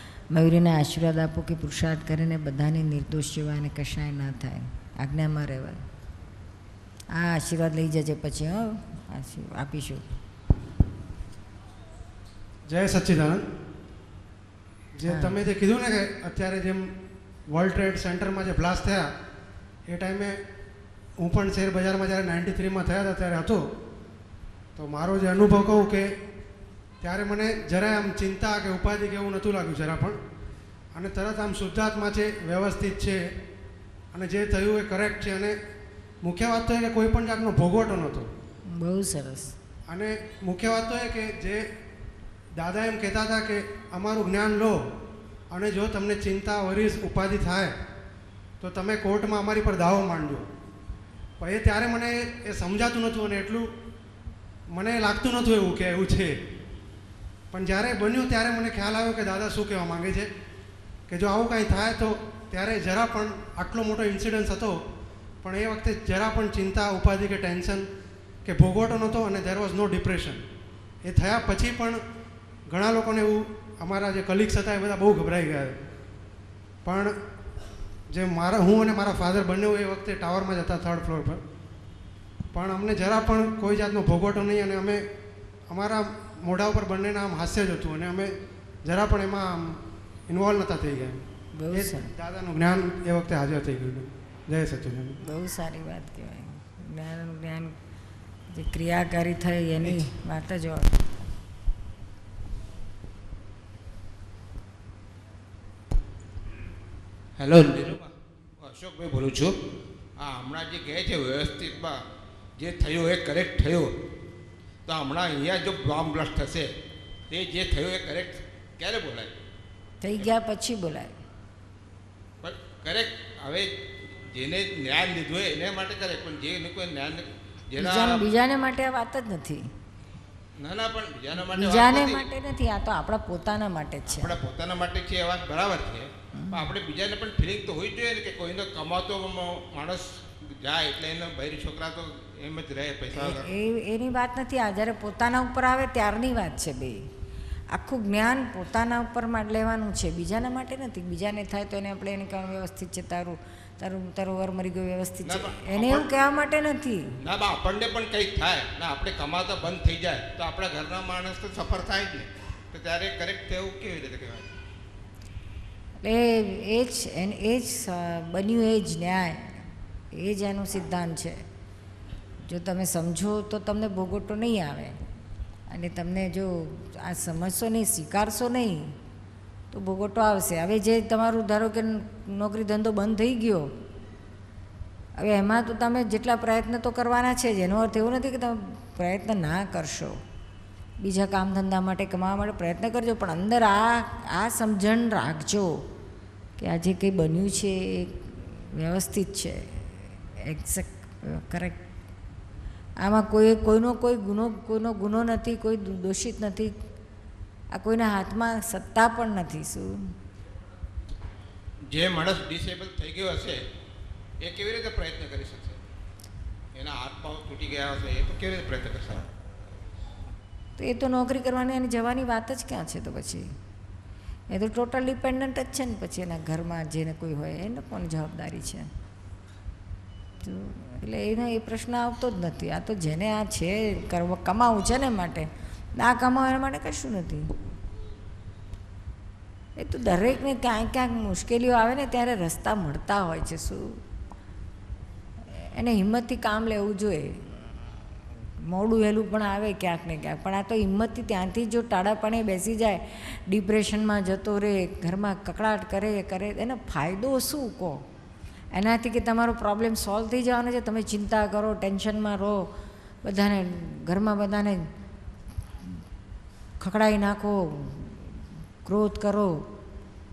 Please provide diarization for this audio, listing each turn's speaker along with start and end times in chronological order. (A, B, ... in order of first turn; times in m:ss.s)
0:00.3-0:05.8 A
0:07.1-0:10.2 A
0:12.7-0:13.4 B
0:14.9-0:16.8 B
0:15.1-0:15.4 A
0:17.5-0:19.1 B
0:19.9-0:20.3 B
0:21.2-0:23.6 B
0:24.8-0:26.0 B
0:27.0-0:30.2 B
0:30.9-0:33.2 B
0:34.1-0:35.5 B
0:36.2-0:38.3 B
0:38.7-0:39.5 A
0:39.9-0:41.6 B
0:42.6-0:44.7 B
0:45.5-0:47.7 B
0:48.6-0:50.4 B
0:51.4-0:53.6 B
0:54.7-0:56.3 B
0:57.5-1:00.3 B
1:01.1-1:04.8 B
1:05.4-1:07.9 B
1:08.4-1:10.4 B
1:11.0-1:12.0 B
1:12.7-1:15.7 B
1:16.8-1:17.1 B
1:18.1-1:21.4 B
1:22.5-1:25.0 B
1:25.7-1:28.3 B
1:28.8-1:29.8 B
1:30.3-1:31.2 B
1:31.6-1:32.1 A
1:31.7-1:35.2 B
1:35.2-1:37.7 A
1:38.5-1:41.0 A
1:47.4-1:48.1 C
1:48.6-1:49.5 C
1:50.2-1:52.0 C
1:52.6-1:53.9 C
1:54.9-1:56.7 C
1:57.3-1:59.3 C
2:00.0-2:01.1 A
2:02.4-2:03.7 C
2:04.3-2:08.2 C
2:07.8-2:09.6 A
2:10.6-2:12.2 C
2:11.4-2:14.3 A
2:14.1-2:23.4 C
2:16.3-2:16.7 A
2:23.1-2:27.0 A
2:27.7-2:37.0 A
2:35.2-2:36.1 C
2:37.2-2:44.5 C
2:46.0-2:49.5 A
2:50.1-2:51.4 A
2:52.4-2:55.0 A
2:55.7-2:58.9 A
2:59.7-3:03.7 A
3:05.2-3:10.2 A
3:11.0-3:15.7 A
3:16.6-3:21.8 A
3:23.0-3:26.7 A
3:27.7-3:29.9 A
3:31.9-3:33.6 C
3:34.4-3:35.8 C
3:36.8-3:39.3 C
3:40.8-3:43.4 A
3:44.5-3:48.9 A
3:50.4-3:57.4 A
3:59.8-4:04.0 A
4:05.5-4:08.0 A
4:08.6-4:18.0 A
4:18.7-4:22.6 A
4:23.2-4:24.8 A
4:26.8-4:29.6 A